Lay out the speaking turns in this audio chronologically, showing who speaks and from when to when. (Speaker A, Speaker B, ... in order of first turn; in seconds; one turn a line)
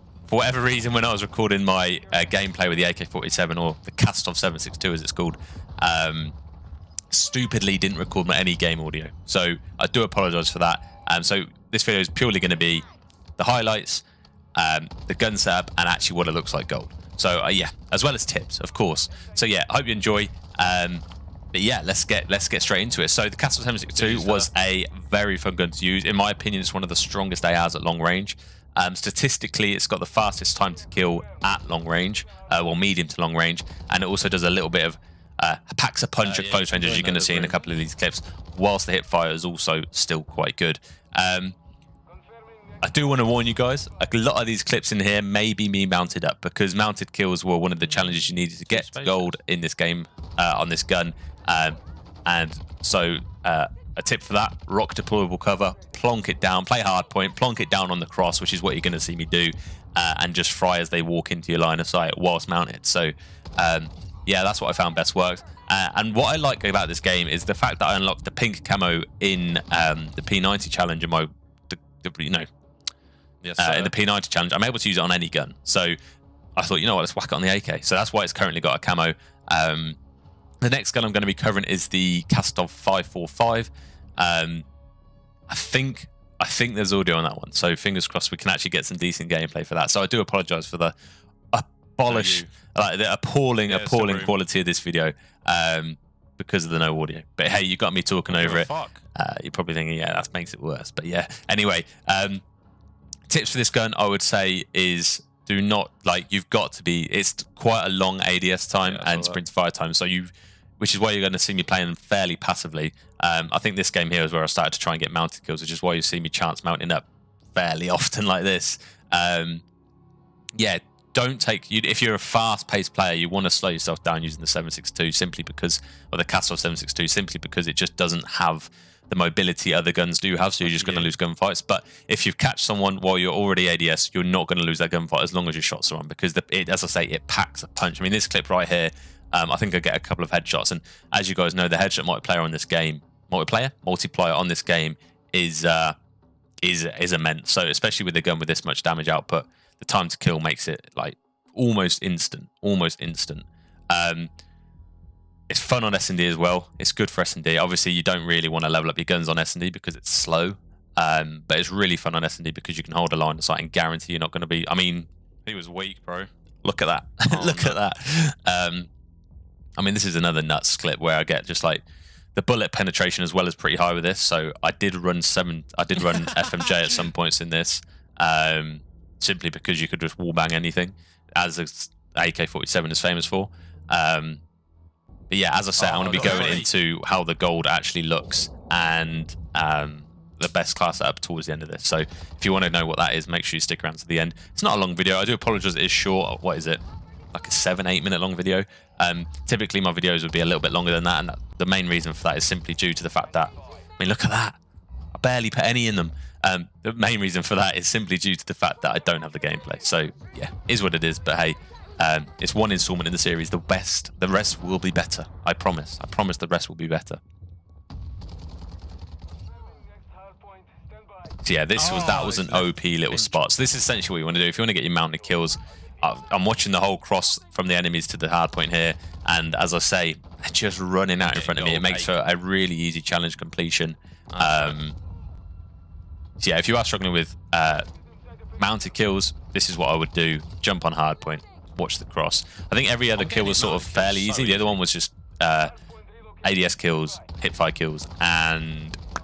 Speaker A: 0.3-6.3
Speaker A: 7.1-12.8
Speaker A: 13.4-14.0
Speaker A: 14.6-41.5
Speaker B: 23.9-24.5
Speaker B: 36.2-37.6
Speaker A: 42.8-72.5
Speaker B: 47.9-49.3
Speaker B: 73.4-73.9
Speaker A: 73.6-76.0
Speaker A: 76.6-80.0
Speaker A: 80.6-84.7
Speaker A: 85.5-90.9
Speaker A: 91.5-102.4
Speaker B: 92.1-92.5
Speaker B: 93.7-94.3
Speaker B: 98.3-99.0
Speaker A: 103.3-119.6
Speaker B: 108.8-109.4
Speaker A: 120.5-145.9
Speaker B: 130.6-131.1
Speaker A: 146.6-154.3
Speaker A: 155.5-165.1
Speaker B: 165.5-166.3
Speaker A: 166.6-168.9
Speaker B: 167.3-167.8
Speaker A: 169.8-171.8
Speaker A: 172.3-184.4
Speaker B: 176.1-176.6
Speaker A: 185.3-196.8
Speaker B: 185.8-186.7
Speaker A: 197.3-204.6
Speaker A: 205.1-217.2
Speaker A: 221.4-235.0
Speaker B: 221.8-223.4
Speaker B: 231.2-232.1
Speaker B: 234.3-234.8
Speaker A: 236.4-237.9
Speaker A: 238.6-245.7
Speaker B: 243.2-244.8
Speaker A: 246.4-249.0